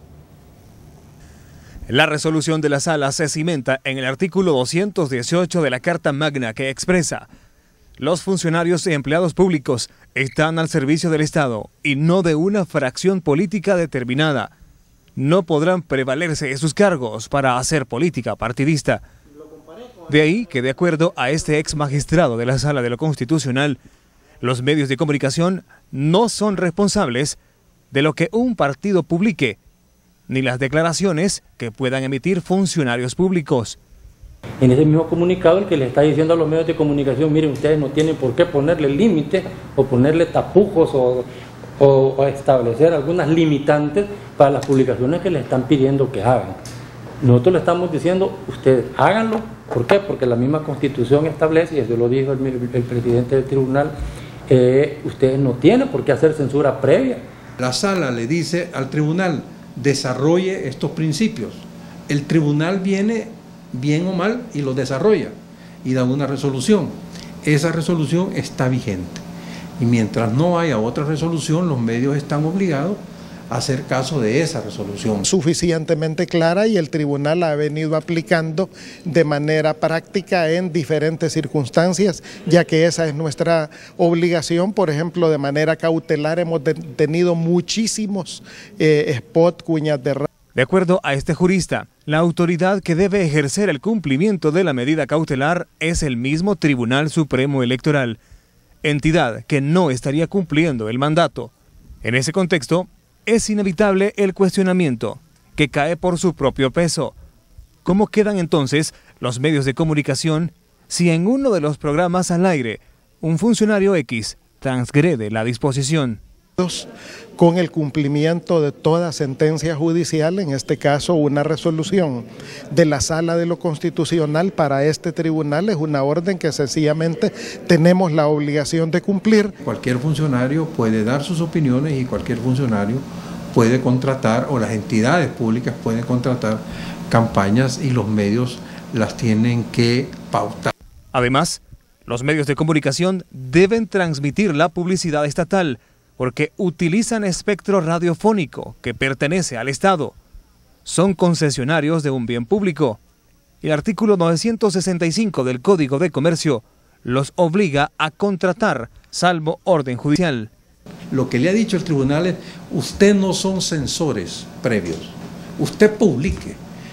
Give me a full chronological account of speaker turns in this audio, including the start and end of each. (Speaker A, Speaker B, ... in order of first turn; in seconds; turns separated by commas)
Speaker A: 1.9-7.3, Speaker A: 8.0-14.5, Speaker A: 15.2-19.0, Speaker A: 20.1-23.8, Speaker A: 24.4-27.4, Speaker A: 27.9-29.6, Speaker A: 30.3-33.8, Speaker B: 34.6-41.3, Speaker B: 41.8-46.6, Speaker B: 47.2-54.0, Speaker B: 54.5-57.2, Speaker C: 57.6-69.2, Speaker C: 69.8-75.2, Speaker D: 75.2-90.3, Speaker A: 90.5-98.2, Speaker A: 98.8-107.2, Speaker A: 107.8-116.2, Speaker D: 116.6-129.6, Speaker C: 129.6-140.7, Speaker A: 141.1-150.2, Speaker A: 150.8-153.0, Speaker A: 153.6-160.5, Speaker C: 161.1-166.6